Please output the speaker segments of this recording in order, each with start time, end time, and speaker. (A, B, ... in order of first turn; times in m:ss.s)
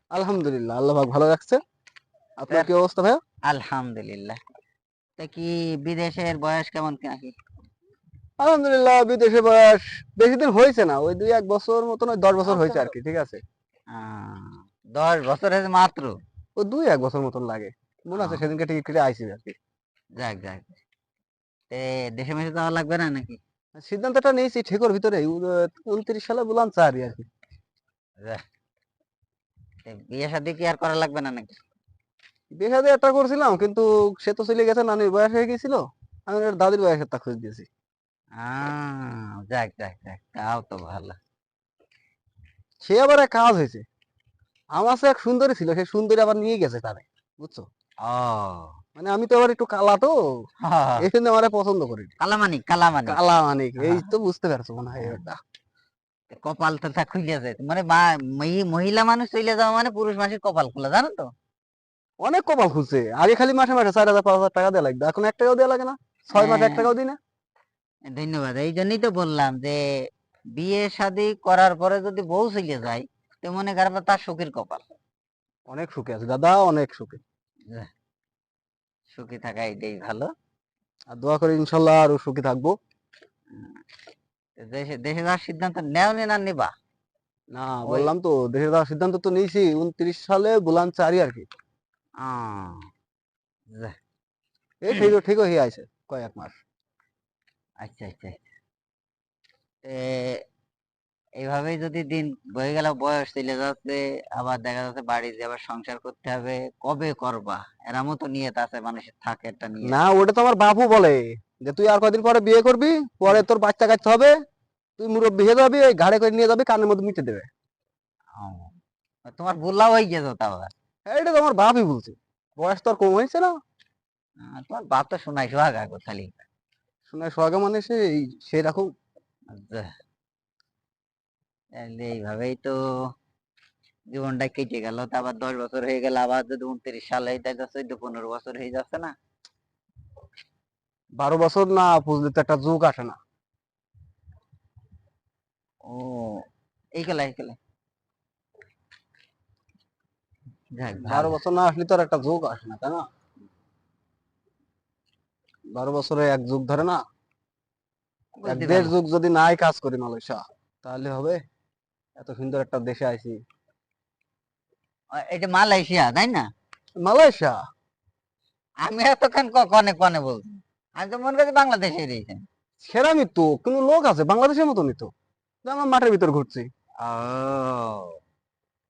0:00.1-0:01.6 A
0:02.4-0:03.2 A
0:03.5-0:04.4 B
0:05.2-0:07.4 B
0:08.4-0:13.4 A
0:12.5-0:12.9 B
0:13.9-0:16.2 B
0:16.6-0:19.6 A
0:18.2-0:18.4 B
0:20.2-0:20.8 B
0:21.7-0:23.4 B
0:23.8-0:27.3 A
0:29.8-0:31.6 B
0:32.6-0:37.7 A
0:38.4-0:41.2 B
0:42.8-0:43.8 A
0:44.7-0:47.7 A
0:48.0-0:48.8 B
0:49.0-0:50.2 A
0:50.6-0:51.1 B
0:51.0-0:52.1 A
0:52.2-0:53.2 B
0:53.1-0:55.4 A
0:53.8-0:54.1 B
0:55.0-0:55.3 B
0:56.3-1:01.3 B
1:02.2-1:07.2 A
1:06.3-1:06.9 B
1:08.1-1:09.8 B
1:10.5-1:14.8 B
1:15.7-1:17.2 A
1:19.1-1:20.3 B
1:21.1-1:22.7 A
1:23.5-1:23.8 B
1:24.6-1:26.7 B
1:27.5-1:31.5 A
1:32.2-1:32.8 B
1:34.8-1:36.6 A
1:37.8-1:38.4 B
1:39.8-1:40.4 B
1:41.4-1:50.0 B
1:49.8-1:54.3 A
1:55.0-1:57.5 A
1:58.4-1:58.7 B
1:59.3-2:00.7 B
2:01.0-2:03.5 A
2:04.4-2:06.4 B
2:07.1-2:08.9 A
2:09.5-2:09.9 B
2:11.8-2:12.8 B
2:14.1-2:19.1 B
2:21.2-2:23.2 A
2:25.8-2:27.6 B
2:30.8-2:31.4 B
2:31.0-2:33.0 A
2:35.7-2:37.0 A
2:38.4-2:38.9 B
2:38.4-2:41.4 A
2:42.2-2:43.4 A
2:45.1-2:46.5 B
2:47.0-2:47.6 A
2:48.8-2:52.4 B
2:52.8-2:55.1 A
2:55.6-2:56.7 A
2:57.0-2:58.2 B